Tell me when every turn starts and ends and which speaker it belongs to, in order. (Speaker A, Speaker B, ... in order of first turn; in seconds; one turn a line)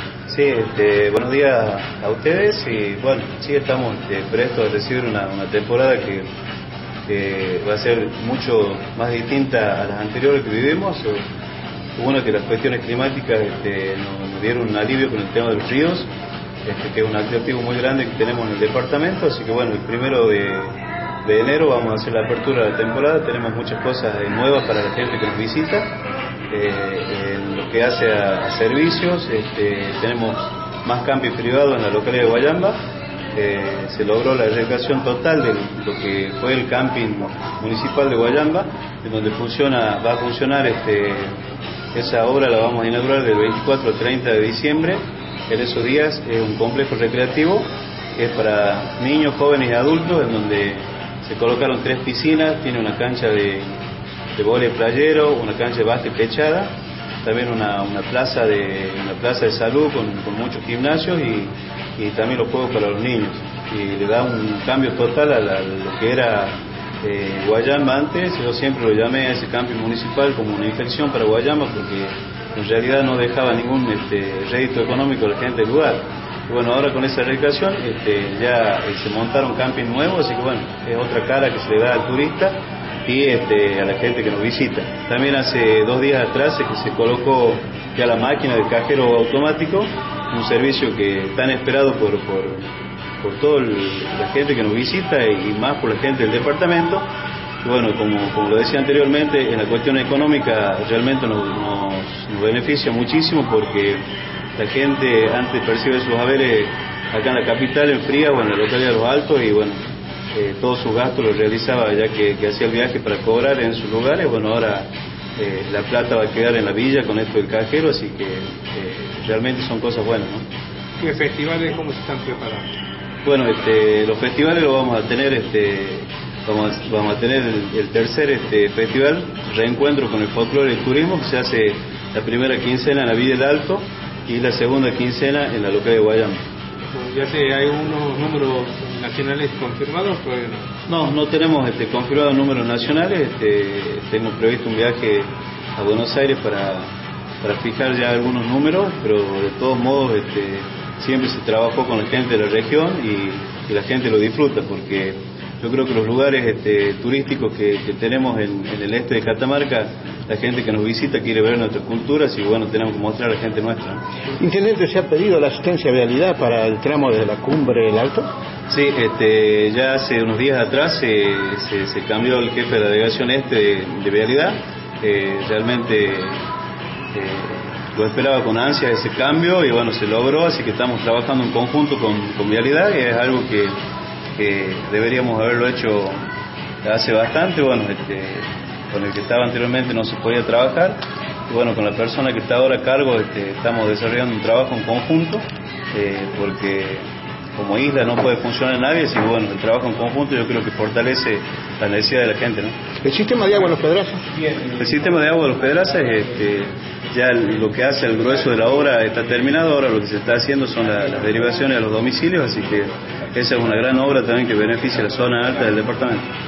Speaker A: 0.3-6.2
Speaker A: 7.1-11.2
Speaker A: 12.0-16.1
Speaker A: 16.6-25.9
Speaker A: 26.5-32.8
Speaker A: 33.3-41.3
Speaker A: 41.9-53.7
Speaker A: 54.4-56.7
Speaker A: 57.2-92.6
Speaker A: 93.2-97.0
Speaker A: 97.6-104.0
Speaker A: 104.6-109.8
Speaker A: 110.3-120.4
Speaker B: 121.0-122.7
Speaker A: 123.2-136.4
Speaker B: 136.9-140.7
Speaker A: 140.9-146.9
Speaker A: 147.4-164.0
Speaker C: 164.4-168.3
Speaker A: 168.7-176.4
Speaker A: 177.1-183.8
Speaker A: 184.3-186.2
Speaker A: 186.8-197.0
Speaker A: 197.6-202.8
Speaker C: 203.0-204.4
Speaker A: 204.6-216.2